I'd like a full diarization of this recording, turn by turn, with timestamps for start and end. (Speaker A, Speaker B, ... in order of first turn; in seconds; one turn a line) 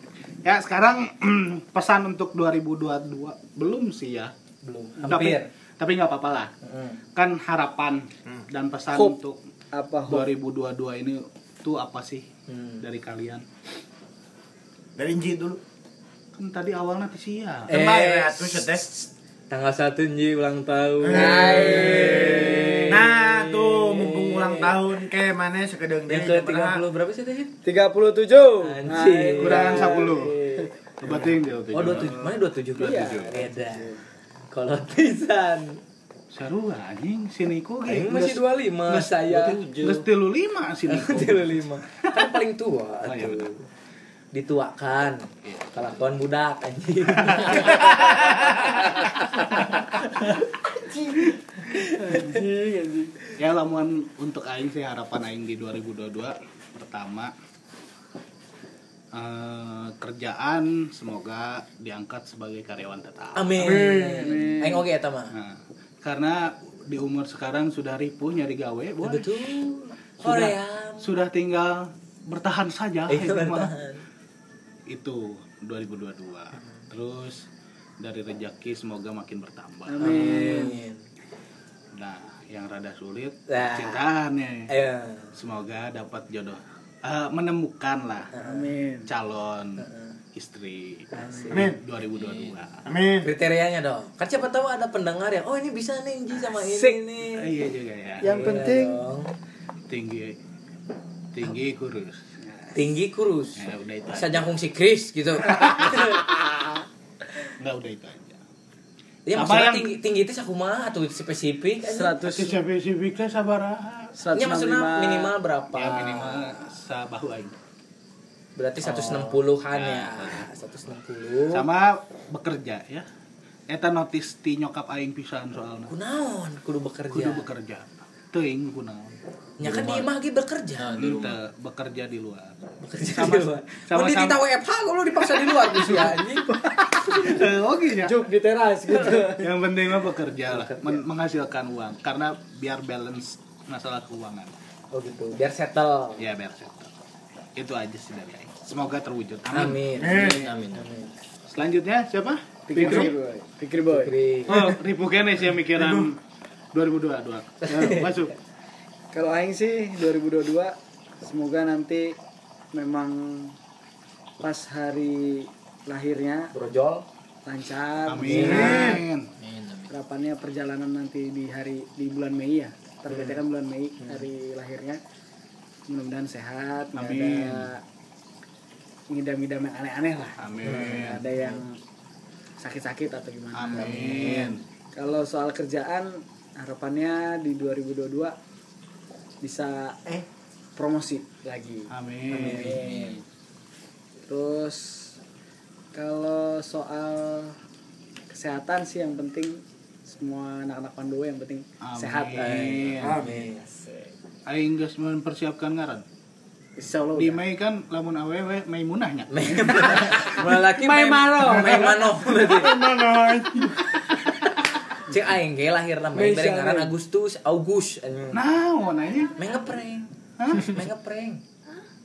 Speaker A: 0.4-4.3
Speaker B: 4.6-5.5
Speaker A: 5.0-6.5
Speaker B: 6.6-7.0
Speaker A: 7.1-9.4
Speaker C: 9.7-10.3
Speaker A: 10.1-12.3
Speaker B: 12.5-12.8
Speaker A: 12.8-13.4
Speaker D: 15.0-15.6
Speaker A: 16.3-17.7
Speaker D: 17.7-18.8
Speaker B: 17.7-23.0
Speaker D: 21.0-22.3
Speaker C: 21.1-22.9
Speaker D: 22.9-26.8
Speaker B: 23.6-24.7
Speaker B: 26.1-27.5
Speaker C: 27.6-30.7
Speaker B: 28.6-30.0
Speaker A: 29.4-30.4
Speaker A: 31.0-33.4
Speaker B: 31.7-33.9
Speaker C: 32.8-34.0
Speaker B: 34.5-35.8
Speaker A: 36.3-42.2
Speaker B: 37.9-39.6
Speaker E: 39.7-40.0
Speaker B: 40.9-43.6
Speaker A: 43.0-43.5
Speaker B: 44.3-45.2
Speaker B: 45.7-50.0
Speaker A: 47.2-47.5
Speaker C: 51.7-53.3
Speaker A: 53.4-57.3
Speaker A: 59.1-63.8
Speaker B: 63.4-65.3
Speaker D: 63.6-64.3
Speaker C: 63.9-64.8
Speaker A: 65.3-69.5
Speaker B: 69.0-71.2
Speaker A: 70.2-73.7
Speaker B: 73.1-74.0
Speaker A: 74.9-77.4
Speaker A: 78.0-80.6
Speaker C: 79.8-80.8
Speaker B: 80.0-81.0
Speaker A: 81.9-84.7
Speaker B: 83.5-84.0
Speaker B: 84.7-85.3
Speaker A: 85.3-88.3
Speaker B: 88.3-88.7
Speaker C: 88.4-89.1
Speaker A: 89.1-92.8
Speaker B: 89.8-90.2
Speaker B: 91.1-91.7
Speaker D: 91.5-91.8
Speaker E: 92.2-92.5
Speaker D: 92.8-93.3
Speaker B: 93.2-97.5
Speaker C: 96.5-97.0
Speaker A: 97.3-98.5
Speaker C: 98.2-99.0
Speaker B: 98.2-99.3
Speaker A: 99.9-100.4
Speaker A: 101.3-102.2
Speaker B: 102.7-106.3
Speaker A: 103.6-104.5
Speaker A: 105.4-105.9
Speaker A: 107.6-108.4
Speaker B: 109.2-112.2
Speaker A: 109.3-109.9
Speaker C: 111.8-112.6
Speaker A: 112.2-114.2
Speaker C: 114.2-115.3
Speaker B: 114.3-116.6
Speaker A: 115.7-117.5
Speaker B: 118.5-121.7
Speaker A: 118.8-120.4
Speaker A: 121.5-123.0
Speaker A: 123.7-125.9
Speaker B: 125.9-127.5
Speaker A: 127.1-129.2
Speaker B: 129.6-130.9
Speaker E: 129.6-130.1
Speaker E: 130.8-131.4
Speaker A: 131.0-134.4
Speaker B: 132.8-136.5
Speaker A: 135.6-136.2
Speaker C: 136.4-137.4
Speaker A: 137.1-138.1
Speaker C: 138.0-139.5
Speaker A: 139.1-144.5
Speaker B: 140.5-141.0
Speaker B: 144.9-146.3
Speaker A: 146.2-146.9
Speaker A: 147.6-150.0
Speaker B: 149.5-151.1
Speaker D: 149.9-150.5
Speaker E: 150.0-150.9
Speaker A: 151.5-153.1
Speaker C: 152.7-154.2
Speaker B: 153.9-154.8
Speaker A: 154.5-156.2
Speaker D: 154.5-154.7
Speaker D: 155.7-156.1
Speaker A: 156.7-158.3
Speaker B: 157.7-158.2
Speaker C: 159.1-162.2
Speaker C: 162.7-163.5
Speaker C: 164.4-166.5
Speaker B: 166.5-167.0
Speaker C: 167.4-169.0
Speaker A: 168.1-169.3
Speaker B: 168.2-169.0
Speaker E: 169.4-169.9
Speaker C: 169.9-175.0
Speaker C: 175.9-177.8
Speaker A: 176.9-177.7
Speaker C: 179.1-181.8
Speaker A: 180.4-181.2
Speaker B: 180.6-181.5
Speaker C: 182.6-188.3
Speaker A: 183.5-184.6
Speaker B: 183.8-184.4
Speaker C: 189.4-190.0
Speaker C: 190.8-193.2
Speaker A: 191.9-192.8
Speaker B: 192.3-193.1
Speaker E: 192.7-193.2
Speaker C: 194.3-195.1
Speaker C: 195.9-197.6
Speaker C: 198.3-202.6
Speaker A: 201.8-203.2
Speaker B: 202.3-203.6
Speaker D: 203.0-203.3
Speaker C: 203.3-204.1
Speaker A: 204.4-206.0
Speaker C: 206.8-207.4
Speaker A: 207.2-210.3
Speaker B: 209.3-212.7
Speaker C: 210.6-212.7
Speaker D: 211.4-213.8
Speaker B: 215.1-218.4
Speaker C: 216.1-216.9
Speaker A: 218.3-219.4
Speaker B: 219.4-221.4
Speaker A: 220.4-220.7